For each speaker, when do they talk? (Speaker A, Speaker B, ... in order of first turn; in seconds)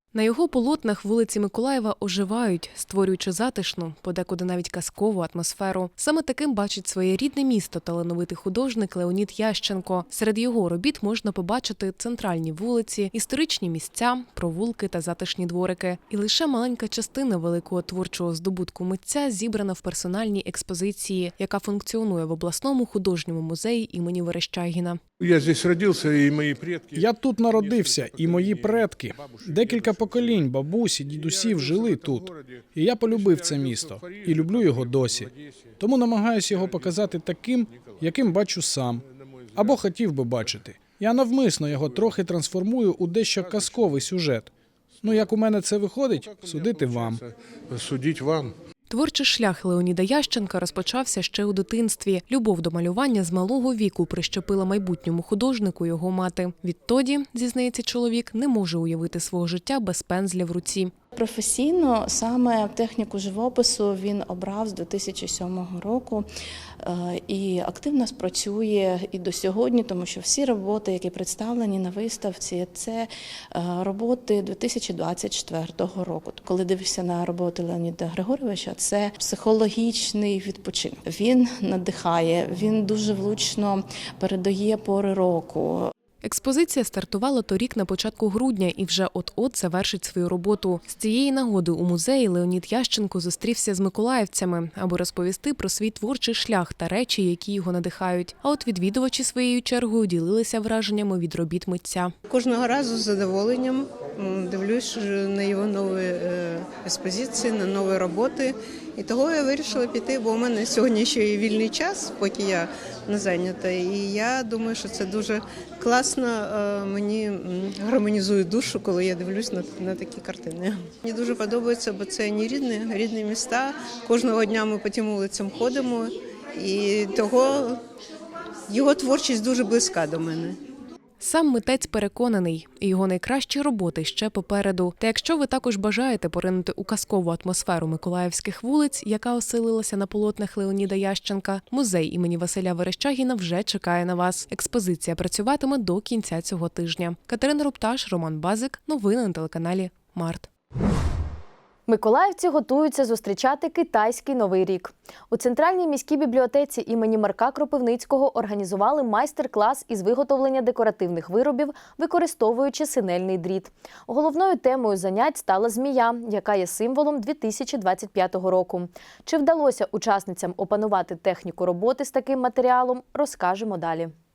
Speaker A: 0.1-25.0, 48.9-60.9, 86.2-102.1, 131.2-150.5
Speaker B: 25.2-30.4, 31.1-35.8, 36.5-37.1, 37.7-38.1, 39.0-39.8, 41.6-42.2, 43.4-44.1, 45.0-45.3, 46.2-48.5
Speaker C: 26.9-39.0, 39.5-44.5, 45.0-47.2
Speaker D: 61.1-66.3, 66.8-85.9
Speaker E: 102.3-115.2, 115.8-116.4, 117.0-117.2, 118.0-120.6, 121.1-126.0, 126.7-127.5, 128.8-130.5
Speaker F: 151.9-174.1